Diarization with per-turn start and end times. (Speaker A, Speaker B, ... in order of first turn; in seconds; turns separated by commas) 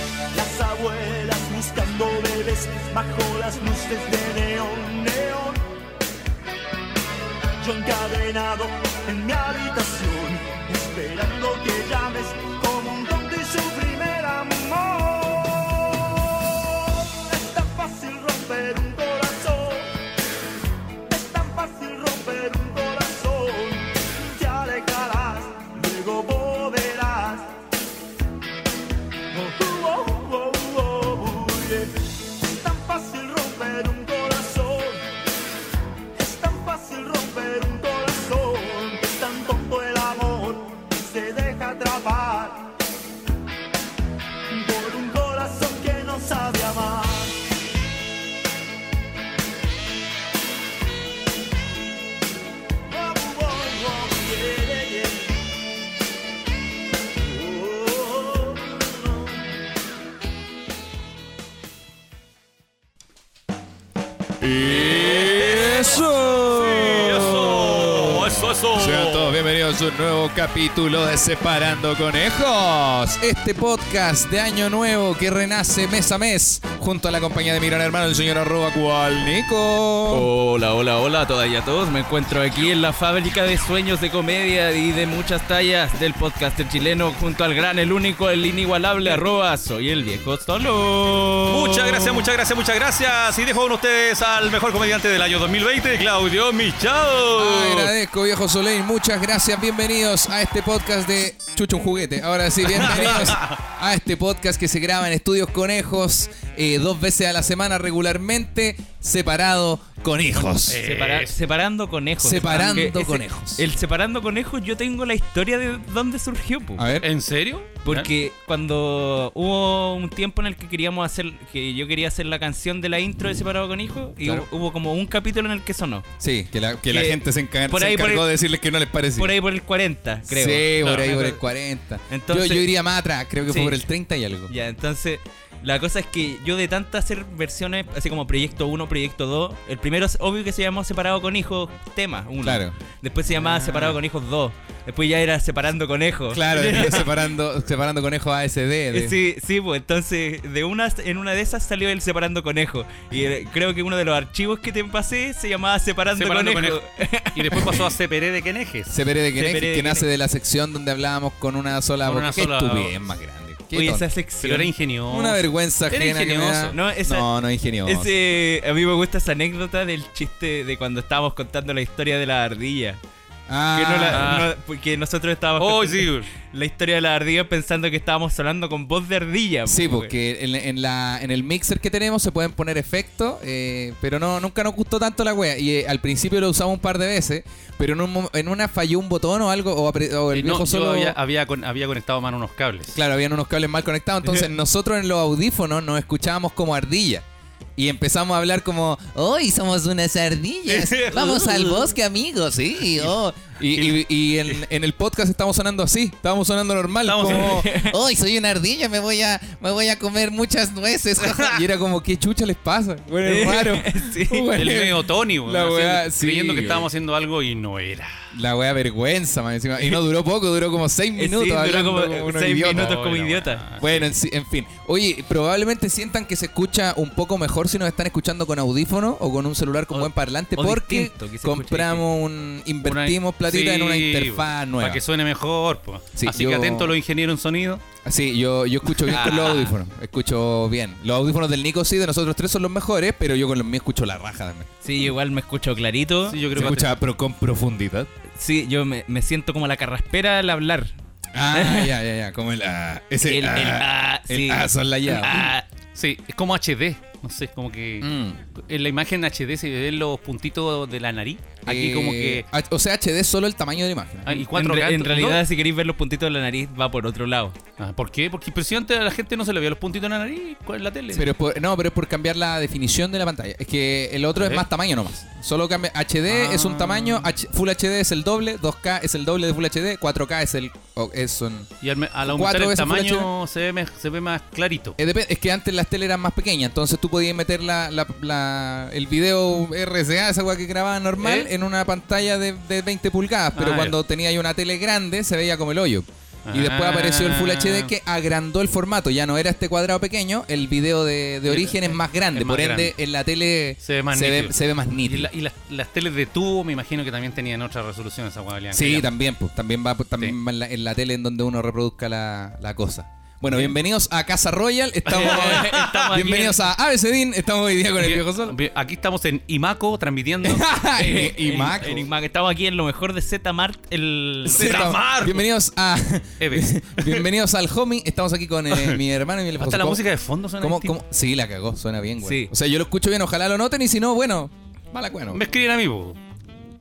Speaker A: 0.3-5.6, Speaker A: 7.6-19.9, Speaker A: 21.1-27.5, Speaker A: 29.3-35.0, Speaker A: 36.2-42.8, Speaker A: 44.5-47.4, Speaker A: 52.9-55.5, Speaker A: 57.2-58.9, Speaker B: 64.4-80.3, Speaker C: 64.7-69.4, Speaker D: 80.1-92.2, Speaker C: 91.5-97.9, Speaker B: 97.3-110.8, Speaker C: 102.6-103.6, Speaker C: 110.3-111.4, Speaker D: 110.8-116.8, Speaker B: 112.2-113.6, Speaker B: 116.8-117.1, Speaker C: 117.0-118.1, Speaker D: 117.8-126.1, Speaker B: 124.2-124.5, Speaker B: 126.2-129.3, Speaker D: 126.9-128.3, Speaker D: 129.2-131.3, Speaker B: 130.3-134.5, Speaker C: 130.8-131.3, Speaker D: 132.1-132.7, Speaker D: 133.4-133.8, Speaker D: 134.5-147.1, Speaker B: 142.4-142.8, Speaker C: 143.4-144.0, Speaker B: 146.3-149.2, Speaker D: 148.9-157.8, Speaker C: 156.2-156.8, Speaker C: 157.3-158.9, Speaker B: 158.9-164.1, Speaker D: 159.3-160.1, Speaker C: 162.0-163.0, Speaker D: 163.7-164.7, Speaker C: 164.4-166.8, Speaker B: 165.1-168.1, Speaker D: 166.7-167.3, Speaker D: 167.8-173.0, Speaker B: 173.5-174.4, Speaker D: 173.7-180.1, Speaker C: 174.1-174.5, Speaker C: 175.6-176.3, Speaker B: 179.7-191.2, Speaker C: 190.3-192.9, Speaker B: 192.9-197.2, Speaker B: 197.8-216.9, Speaker C: 200.7-201.7, Speaker D: 201.1-201.8, Speaker C: 203.7-204.6, Speaker C: 207.0-207.7, Speaker D: 207.2-207.9, Speaker C: 211.2-211.6, Speaker D: 213.2-214.5, Speaker C: 214.5-218.1, Speaker B: 218.3-223.0, Speaker D: 221.2-223.6, Speaker C: 222.6-224.1, Speaker B: 223.8-235.0, Speaker D: 229.9-232.1, Speaker C: 232.8-237.8, Speaker B: 236.2-236.9, Speaker B: 238.0-244.7, Speaker D: 239.0-239.8, Speaker D: 244.8-246.4, Speaker C: 246.3-246.9, Speaker B: 246.5-248.1, Speaker D: 248.4-250.9, Speaker B: 251.3-255.5, Speaker D: 251.5-251.9, Speaker D: 253.2-255.6, Speaker C: 255.9-262.4, Speaker B: 258.0-258.4, Speaker B: 261.7-264.4, Speaker C: 264.2-265.4, Speaker D: 264.5-267.6, Speaker C: 267.8-271.3, Speaker B: 271.1-281.7, Speaker C: 274.4-274.6, Speaker C: 276.3-277.3, Speaker C: 281.8-285.0, Speaker B: 282.2-283.3, Speaker B: 285.0-305.3, Speaker C: 291.2-291.5, Speaker C: 293.5-294.0, Speaker C: 296.4-297.9, Speaker C: 301.4-302.9, Speaker C: 303.8-309.1, Speaker B: 308.7-318.6, Speaker D: 315.1-316.6, Speaker C: 315.1-316.1, Speaker C: 318.0-320.6, Speaker B: 320.4-322.1, Speaker D: 320.9-324.9, Speaker C: 324.4-325.4, Speaker B: 324.4-330.0, Speaker C: 326.4-327.2, Speaker C: 328.7-329.0, Speaker C: 329.6-330.9, Speaker B: 330.6-335.4, Speaker D: 332.2-332.5, Speaker C: 335.3-336.2